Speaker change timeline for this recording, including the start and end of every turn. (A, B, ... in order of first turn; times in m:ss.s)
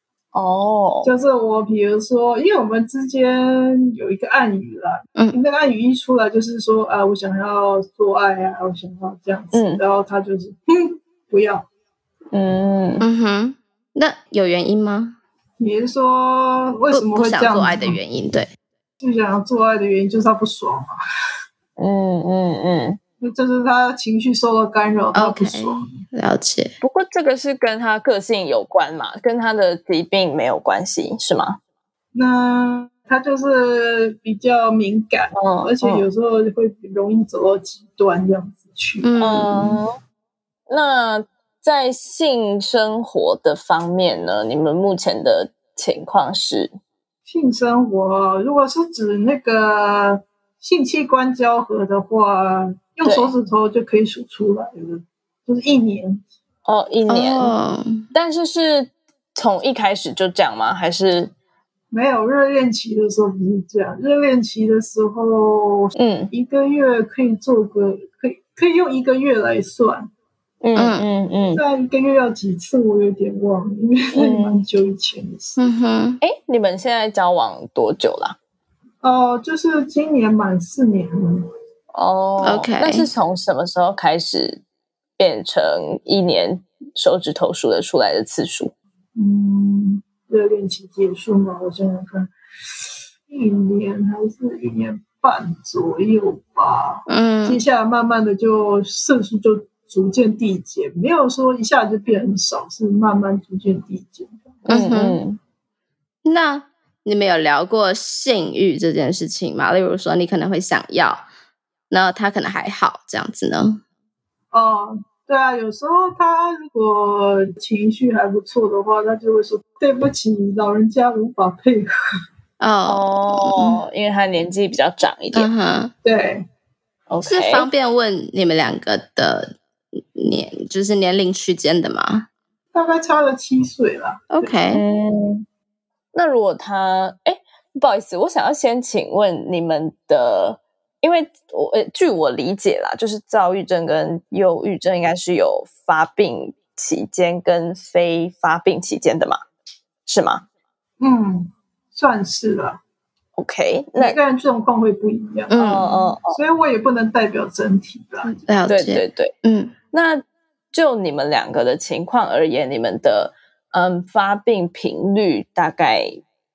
0:00.3-0:01.1 A
0:01.0-0:11.7 B
0:09.5-0:09.8 A
0:12.3-0:13.0 A
0:13.0-0:15.2 C
0:15.6-0:18.0 B
0:16.9-0:18.5 C
0:19.0-0:20.9 B
0:21.8-0:23.0 A
0:23.2-0:26.0 B
0:25.2-0:26.7 C
0:26.8-0:31.6 A
0:32.1-0:39.6 B
0:35.3-0:36.1 A
0:39.0-0:39.7 C
0:39.2-0:39.9 A
0:40.7-0:46.7 A
0:47.3-0:56.2 B
0:53.1-0:53.3 A
0:56.7-0:57.5 A
0:57.1-0:58.1 C
0:58.1-1:01.3 A
1:01.9-1:10.1 B
1:06.0-1:06.3 A
1:10.6-1:11.6 A
1:10.8-1:11.1 C
1:11.6-1:15.7 B
1:14.2-1:14.6 A
1:15.6-1:16.2 C
1:16.2-1:18.4 A
1:19.0-1:21.5 B
1:21.9-1:24.6 A
1:22.4-1:23.1 C
1:25.2-1:28.7 A
1:29.2-1:44.6 B
1:37.1-1:37.6 C
1:44.7-1:45.4 A
1:44.7-1:45.2 C
1:46.2-1:51.3 C
1:51.9-1:53.8 C
1:54.5-2:01.9 B
2:02.6-2:03.8 C
2:02.9-2:05.5 A
2:05.3-2:05.9 C
2:06.0-2:06.5 B
2:07.1-2:07.7 A
2:07.3-2:09.6 C
2:10.2-2:12.3 C
2:12.7-2:14.5 B
2:14.3-2:14.8 C
2:14.7-2:15.4 A
2:16.1-2:29.4 A
2:30.1-2:30.4 A
2:31.0-2:32.8 B
2:33.4-2:34.2 A
2:34.0-2:35.6 B
2:35.5-2:35.9 C
2:35.6-2:36.4 A
2:36.2-2:38.4 B
2:38.3-2:39.3 A
2:38.5-2:39.8 C
2:39.9-2:46.2 A